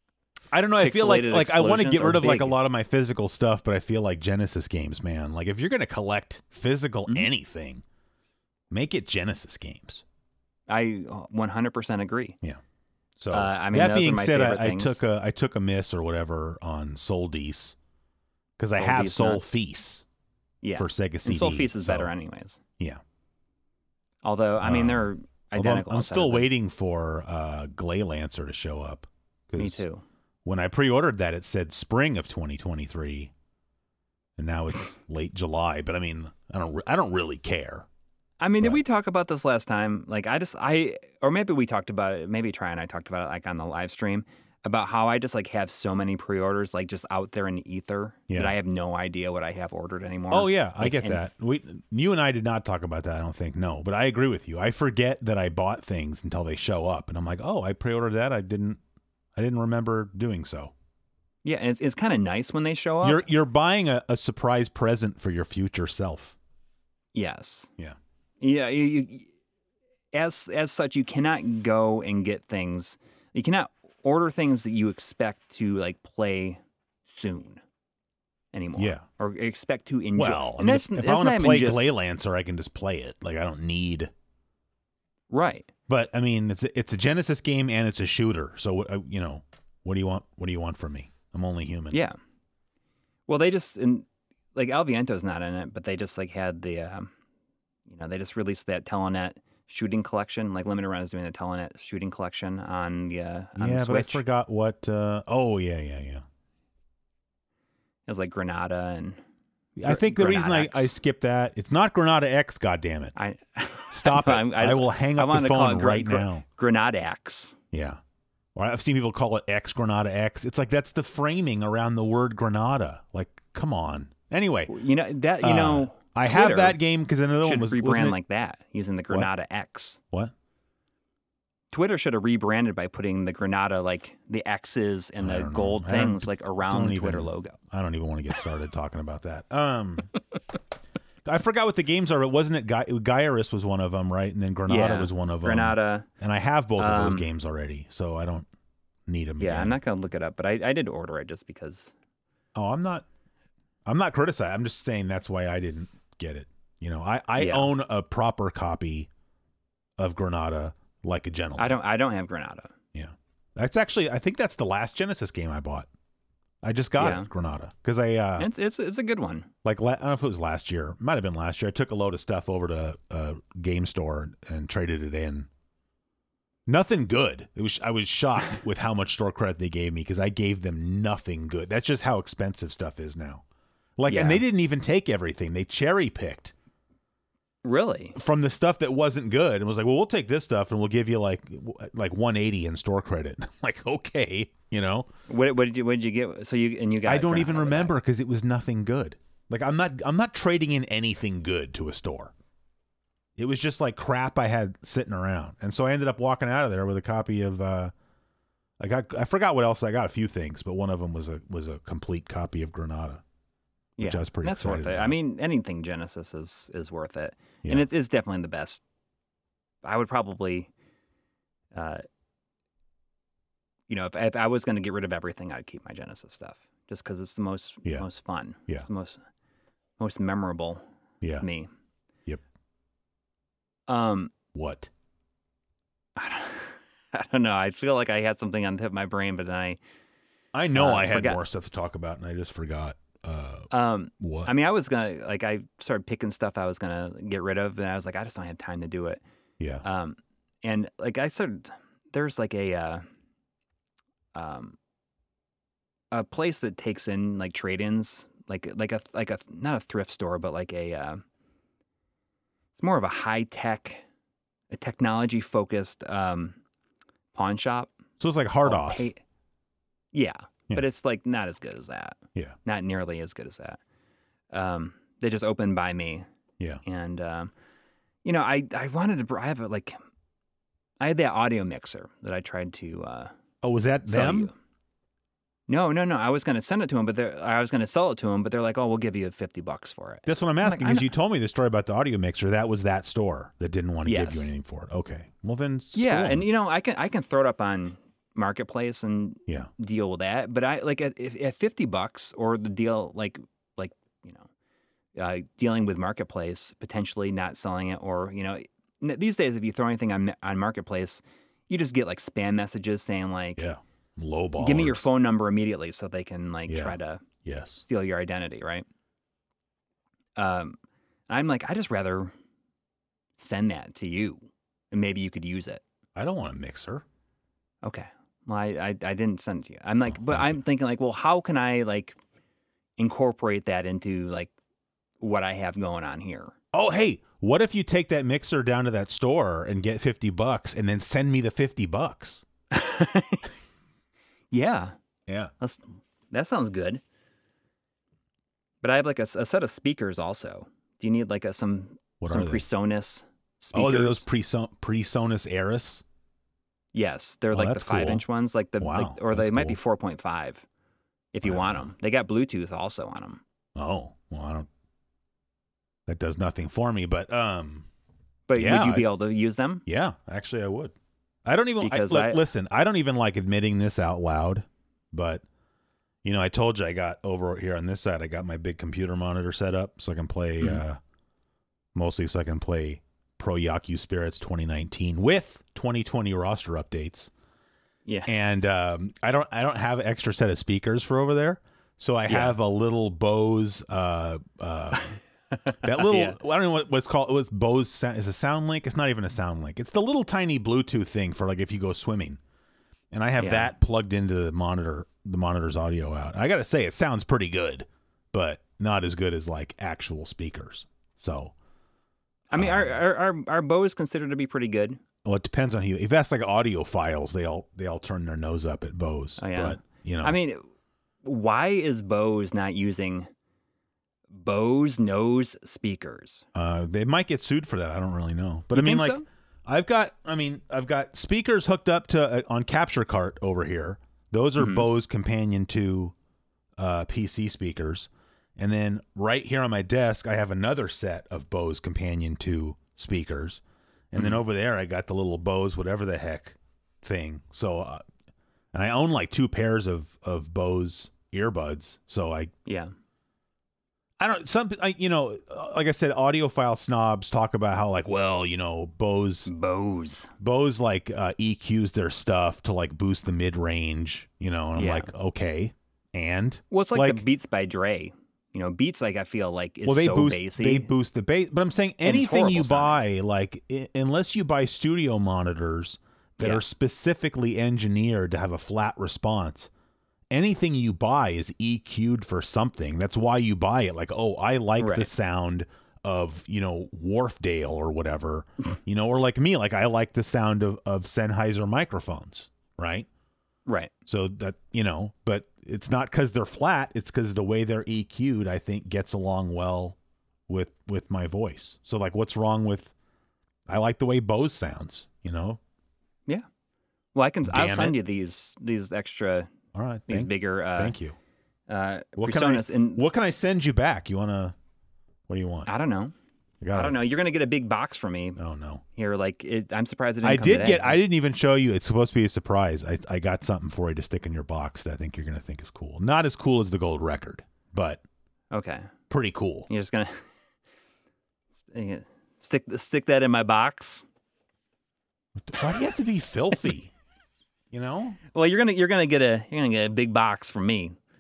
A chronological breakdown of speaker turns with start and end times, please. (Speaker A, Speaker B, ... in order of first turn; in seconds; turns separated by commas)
Speaker A: 0.5-7.8, Speaker B: 0.8-2.6, Speaker A: 8.7-10.0, Speaker B: 10.7-12.4, Speaker A: 13.2-17.7, Speaker B: 13.3-15.0, Speaker A: 18.6-20.0, Speaker B: 18.8-19.5, Speaker B: 20.6-22.6, Speaker A: 20.8-22.1, Speaker B: 24.2-26.5, Speaker A: 24.6-29.8, Speaker B: 29.6-30.0, Speaker A: 30.4-33.3, Speaker A: 34.4-37.9, Speaker B: 38.4-51.2, Speaker A: 48.3-48.5, Speaker A: 50.3-58.8, Speaker A: 59.4-60.7, Speaker B: 61.4-63.2, Speaker A: 63.0-66.3, Speaker B: 67.1-67.7, Speaker B: 68.4-69.3, Speaker B: 70.1-77.6, Speaker B: 78.5-81.9, Speaker A: 78.8-79.0, Speaker A: 80.2-84.1, Speaker B: 85.3-85.7, Speaker A: 85.9-92.0, Speaker B: 91.9-92.2, Speaker B: 93.3-97.1, Speaker B: 97.9-104.2, Speaker A: 103.5-106.2, Speaker B: 108.1-109.2, Speaker A: 109.8-113.1, Speaker B: 109.8-110.9, Speaker B: 113.2-117.5, Speaker A: 113.9-116.4, Speaker A: 117.7-118.0, Speaker A: 118.5-124.7, Speaker B: 124.7-126.8, Speaker A: 125.4-128.2, Speaker B: 127.4-130.0, Speaker B: 131.7-137.6, Speaker A: 135.2-140.1, Speaker A: 141.2-148.5, Speaker B: 144.7-146.1, Speaker B: 146.8-147.3, Speaker A: 149.1-149.8, Speaker B: 149.4-151.9, Speaker A: 152.5-153.1, Speaker A: 153.8-159.1, Speaker B: 157.4-157.7, Speaker A: 160.0-161.8, Speaker B: 161.6-162.7, Speaker A: 162.9-165.9, Speaker A: 166.6-168.5, Speaker B: 167.0-167.3, Speaker B: 168.4-169.5, Speaker A: 169.6-175.5, Speaker A: 176.7-183.4, Speaker A: 184.0-186.5, Speaker B: 184.1-184.4, Speaker B: 187.6-188.2, Speaker A: 188.1-195.1, Speaker B: 195.3-197.9, Speaker A: 197.0-202.3, Speaker A: 203.4-207.9, Speaker A: 208.8-213.2, Speaker B: 214.0-218.8, Speaker A: 214.0-215.2, Speaker B: 219.8-220.7, Speaker B: 221.7-222.0, Speaker B: 223.9-229.2, Speaker B: 230.0-230.8, Speaker B: 231.4-231.7, Speaker B: 233.9-234.3, Speaker A: 234.5-234.9, Speaker B: 236.2-239.8, Speaker A: 240.5-244.5, Speaker B: 240.7-241.4, Speaker B: 243.7-249.2, Speaker A: 249.6-249.8, Speaker B: 249.8-253.0, Speaker B: 254.3-254.8, Speaker B: 256.1-261.2, Speaker B: 262.8-264.0, Speaker B: 264.7-266.6, Speaker B: 267.3-267.9, Speaker A: 268.2-269.1, Speaker B: 268.6-269.2, Speaker B: 270.1-273.8, Speaker B: 274.5-276.2, Speaker B: 276.8-277.5, Speaker B: 278.2-279.9, Speaker B: 281.0-283.3, Speaker A: 283.6-284.5, Speaker B: 284.1-284.5, Speaker B: 285.7-291.1, Speaker A: 290.2-296.4, Speaker B: 294.1-294.5, Speaker B: 295.9-304.5, Speaker B: 305.1-313.6, Speaker A: 313.6-315.1, Speaker B: 314.6-317.2, Speaker A: 316.7-317.9, Speaker B: 317.8-318.8, Speaker B: 320.4-320.8, Speaker B: 321.3-322.3, Speaker B: 323.4-325.8, Speaker A: 326.1-327.0, Speaker B: 327.8-332.2, Speaker A: 330.1-330.6, Speaker B: 333.0-334.5, Speaker B: 335.2-336.5, Speaker A: 336.7-342.4, Speaker B: 342.7-343.5, Speaker B: 344.5-344.9, Speaker B: 345.6-347.0, Speaker B: 348.8-354.2, Speaker A: 352.2-352.6, Speaker A: 353.7-356.0, Speaker B: 356.9-360.6, Speaker A: 357.5-358.2, Speaker A: 358.8-359.8, Speaker B: 361.3-363.4, Speaker A: 361.4-361.9, Speaker A: 363.8-364.7, Speaker A: 366.1-367.9, Speaker B: 368.5-369.8, Speaker A: 368.5-369.1, Speaker A: 369.9-370.9, Speaker A: 371.4-375.4, Speaker B: 371.8-372.4, Speaker A: 376.2-381.0, Speaker A: 381.9-387.3, Speaker A: 388.2-395.2, Speaker B: 392.3-392.6, Speaker B: 395.5-396.4, Speaker A: 395.8-402.4, Speaker A: 403.1-411.5, Speaker B: 403.4-403.7, Speaker B: 412.5-415.0, Speaker A: 412.5-413.0, Speaker A: 415.2-420.4, Speaker B: 419.4-420.6, Speaker B: 421.2-423.3, Speaker B: 424.3-426.4, Speaker A: 426.5-436.1, Speaker B: 428.7-429.2, Speaker B: 434.6-434.8, Speaker A: 436.8-448.0, Speaker A: 448.7-452.5, Speaker B: 452.6-452.9, Speaker A: 454.2-459.5, Speaker B: 459.5-460.3, Speaker A: 460.4-467.2, Speaker B: 464.8-465.1, Speaker B: 466.7-470.9, Speaker A: 469.8-479.7, Speaker B: 472.0-473.0, Speaker B: 476.4-476.6, Speaker A: 480.3-493.1, Speaker B: 484.8-485.1, Speaker B: 493.6-493.9, Speaker A: 494.1-499.9, Speaker A: 500.5-502.9, Speaker A: 503.7-505.6, Speaker B: 507.1-509.5, Speaker A: 507.4-508.0, Speaker A: 509.7-511.1, Speaker B: 510.1-510.9, Speaker B: 511.7-513.0, Speaker A: 512.2-514.5, Speaker A: 515.3-515.7, Speaker B: 515.7-516.1, Speaker A: 516.6-517.0, Speaker B: 516.7-518.4, Speaker A: 518.4-518.8, Speaker B: 518.9-521.0, Speaker A: 520.2-528.0, Speaker B: 528.5-528.9, Speaker A: 529.1-529.7, Speaker B: 529.7-530.2, Speaker B: 531.6-534.0, Speaker A: 535.4-536.9, Speaker A: 537.7-538.2, Speaker B: 538.3-540.9